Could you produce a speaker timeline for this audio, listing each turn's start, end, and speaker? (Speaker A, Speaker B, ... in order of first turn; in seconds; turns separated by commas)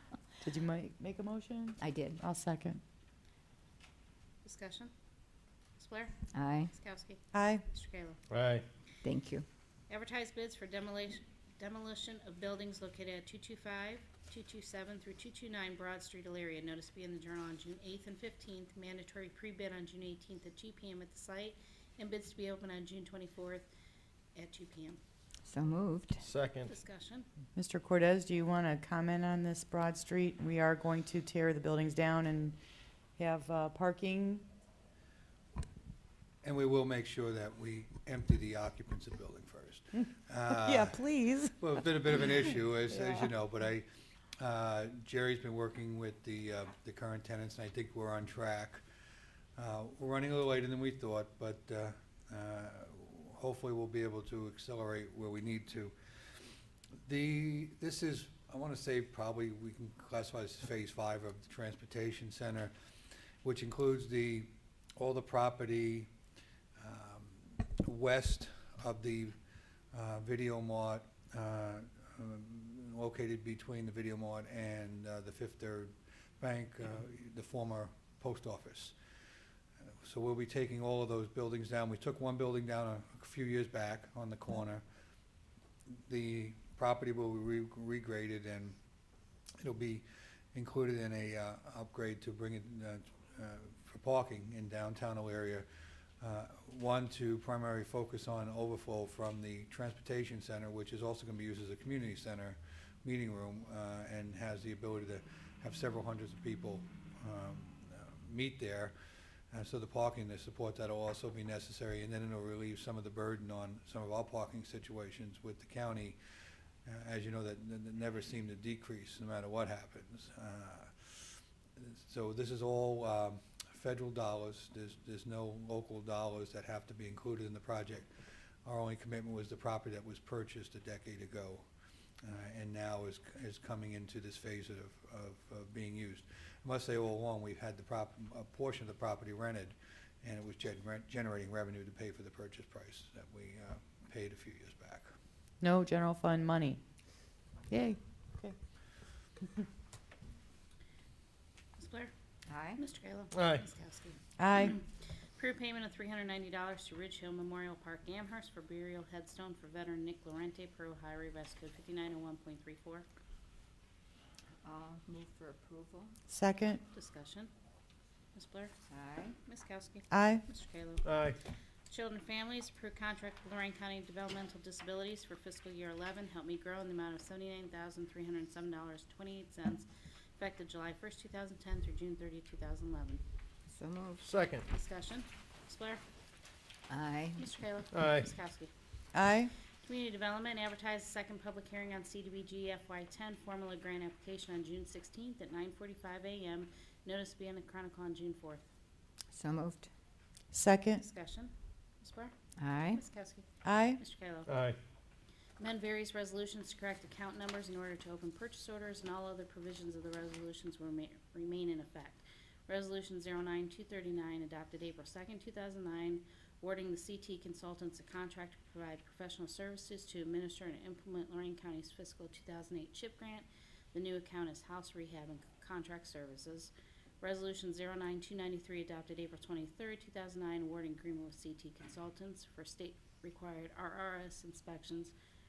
Speaker A: 0.4-2.8, Speaker B: 1.8-2.2, Speaker C: 4.4-4.9, Speaker C: 5.8-8.2, Speaker B: 6.3-6.7, Speaker A: 7.3-7.6, Speaker D: 8.3-8.6, Speaker B: 9.0-9.4, Speaker C: 9.9-23.7, Speaker C: 24.3-25.0, Speaker B: 25.4-26.2, Speaker D: 26.2-26.7, Speaker C: 26.6-27.3, Speaker A: 27.6-32.6, Speaker A: 33.2-34.4, Speaker E: 36.4-43.9, Speaker A: 40.5-41.6, Speaker E: 44.4-48.8, Speaker E: 49.6-55.9, Speaker E: 57.0-62.7, Speaker E: 63.4-66.1, Speaker E: 66.8-69.4, Speaker E: 69.9-79.0, Speaker E: 79.9-84.8, Speaker E: 85.9-88.8, Speaker E: 89.6-95.7, Speaker E: 96.2-108.9, Speaker E: 109.5-116.2, Speaker E: 116.8-128.1, Speaker E: 128.6-131.6, Speaker E: 132.2-145.1, Speaker A: 145.6-146.8, Speaker A: 147.7-148.6, Speaker C: 151.8-152.1, Speaker B: 152.5-152.8, Speaker C: 152.7-163.1, Speaker D: 153.3-153.6, Speaker A: 154.4-154.8, Speaker B: 164.6-166.1, Speaker A: 166.3-166.8, Speaker C: 166.9-167.5, Speaker C: 168.3-168.7, Speaker B: 168.9-169.3, Speaker C: 169.4-171.1, Speaker A: 170.1-170.4, Speaker D: 171.0-171.4, Speaker C: 171.9-183.2, Speaker B: 183.7-184.2, Speaker D: 184.2-184.7, Speaker C: 184.7-186.0, Speaker B: 186.9-187.4, Speaker C: 187.4-188.7, Speaker D: 187.9-188.3, Speaker A: 189.1-189.5, Speaker C: 189.8-198.7, Speaker B: 199.3-199.9, Speaker A: 200.5-201.0, Speaker C: 201.0-202.3, Speaker B: 202.6-203.0, Speaker C: 202.9-204.5, Speaker A: 203.6-204.0, Speaker D: 204.5-204.8, Speaker C: 205.6-235.1